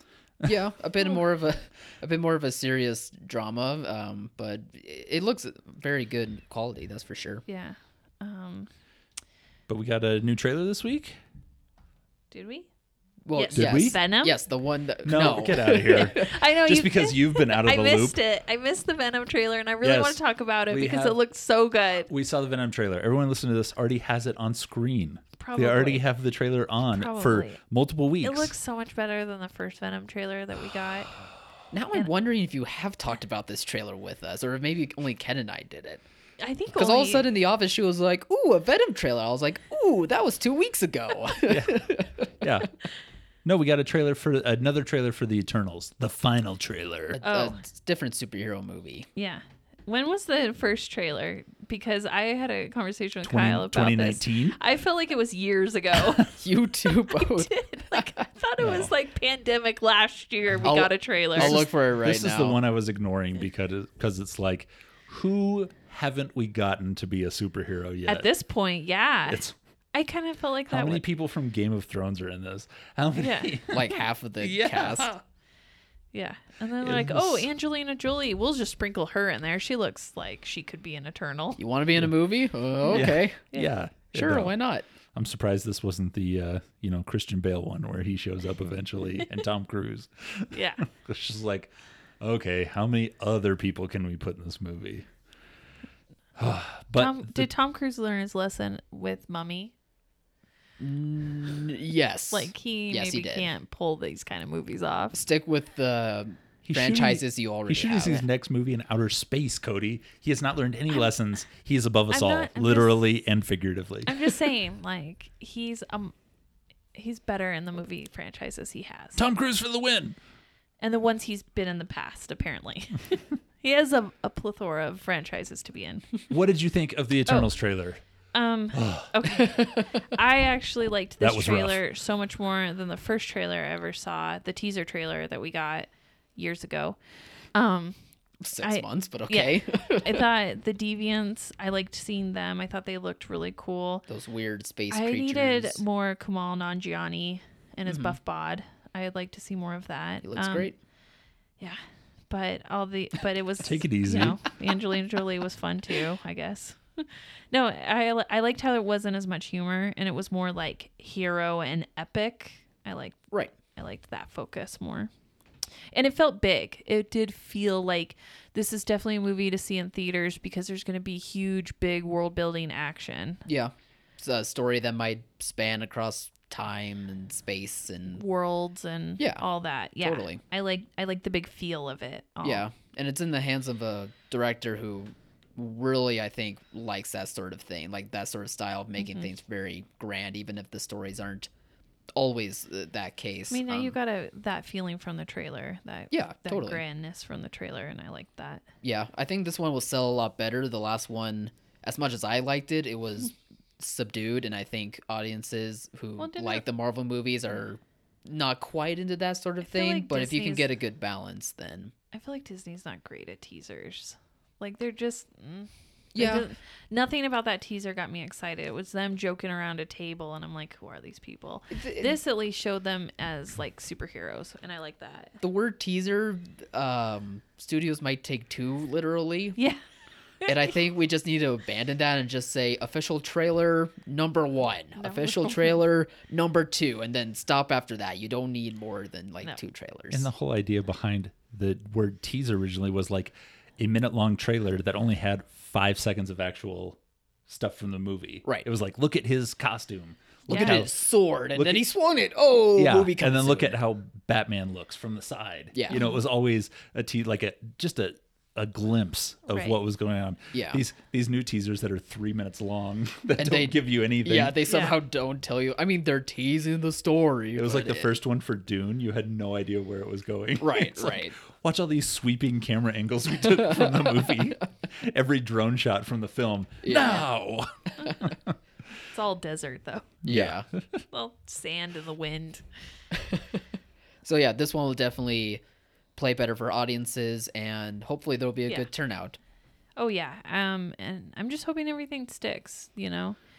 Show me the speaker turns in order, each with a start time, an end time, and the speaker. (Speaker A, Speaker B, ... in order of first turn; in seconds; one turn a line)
Speaker A: 0.4-7.4
Speaker B: 7.5-8.7
Speaker C: 9.7-11.2
Speaker B: 12.3-12.7
Speaker A: 13.2-16.4
Speaker B: 13.3-14.4
Speaker C: 13.5-14.0
Speaker C: 15.0-18.2
Speaker B: 15.9-22.1
Speaker C: 19.8-21.2
Speaker C: 22.1-28.5
Speaker B: 25.4-26.0
Speaker B: 26.9-27.6
Speaker B: 28.2-31.1
Speaker A: 31.7-36.0
Speaker B: 36.4-37.3
Speaker A: 36.7-42.5
Speaker C: 41.5-41.9
Speaker C: 42.4-42.7
Speaker C: 43.4-47.2
Speaker A: 47.1-49.1
Speaker B: 47.2-47.6
Speaker B: 49.1-61.6
Speaker C: 53.2-54.6
Speaker A: 56.3-58.1
Speaker C: 58.6-58.9
Speaker A: 60.6-62.6
Speaker C: 61.4-68.3
Speaker B: 68.1-71.0
Speaker C: 69.3-69.5
Speaker C: 70.7-75.2
Speaker B: 73.1-73.6
Speaker A: 73.7-75.1
Speaker B: 76.1-81.6
Speaker C: 76.8-77.5
Speaker A: 81.6-83.5
Speaker B: 82.8-83.7
Speaker C: 82.9-84.6
Speaker A: 84.1-84.8
Speaker C: 85.1-95.0
Speaker B: 90.5-90.8
Speaker C: 96.3-97.5
Speaker B: 96.9-99.7
Speaker A: 100.8-103.5
Speaker B: 102.3-105.2
Speaker A: 105.1-108.2
Speaker C: 106.6-114.3
Speaker B: 112.1-113.1
Speaker B: 114.0-116.1
Speaker B: 116.9-119.2
Speaker C: 119.1-120.2
Speaker B: 120.8-126.2
Speaker C: 126.3-128.0
Speaker B: 128.3-137.0
Speaker C: 128.7-129.1
Speaker A: 129.4-130.0
Speaker C: 131.2-131.8
Speaker B: 137.5-138.0
Speaker A: 138.4-140.2
Speaker B: 138.6-144.0
Speaker A: 144.1-145.8
Speaker B: 144.9-150.7
Speaker A: 147.9-148.2
Speaker A: 150.2-150.8
Speaker B: 152.3-163.2
Speaker C: 153.6-154.4
Speaker B: 163.8-165.1
Speaker B: 165.9-173.4
Speaker A: 173.4-178.2
Speaker B: 178.1-182.7
Speaker A: 179.2-179.4
Speaker A: 180.0-180.4
Speaker A: 182.4-191.5
Speaker B: 189.0-189.3
Speaker A: 192.1-193.9
Speaker B: 193.5-198.6
Speaker A: 196.1-196.8
Speaker A: 198.8-211.9
Speaker B: 206.2-206.6
Speaker B: 209.6-210.7
Speaker B: 212.1-225.4
Speaker A: 216.1-216.5
Speaker A: 221.7-222.2
Speaker A: 225.4-229.6
Speaker A: 230.4-240.3
Speaker B: 235.0-235.8
Speaker C: 240.1-251.0
Speaker B: 250.5-250.8
Speaker A: 250.5-253.8
Speaker C: 251.5-251.8
Speaker C: 252.7-264.6
Speaker A: 255.7-256.0
Speaker B: 255.9-256.2
Speaker B: 259.5-259.8
Speaker A: 260.5-260.8
Speaker A: 263.4-268.1
Speaker B: 264.7-265.0
Speaker C: 267.6-278.5
Speaker A: 270.6-271.4
Speaker A: 273.7-274.5
Speaker A: 276.8-277.3
Speaker B: 279.1-280.2
Speaker A: 280.2-280.6
Speaker C: 280.2-281.0
Speaker B: 281.1-282.6
Speaker A: 283.1-283.6
Speaker A: 284.2-285.6
Speaker A: 286.2-289.4
Speaker B: 290.0-293.4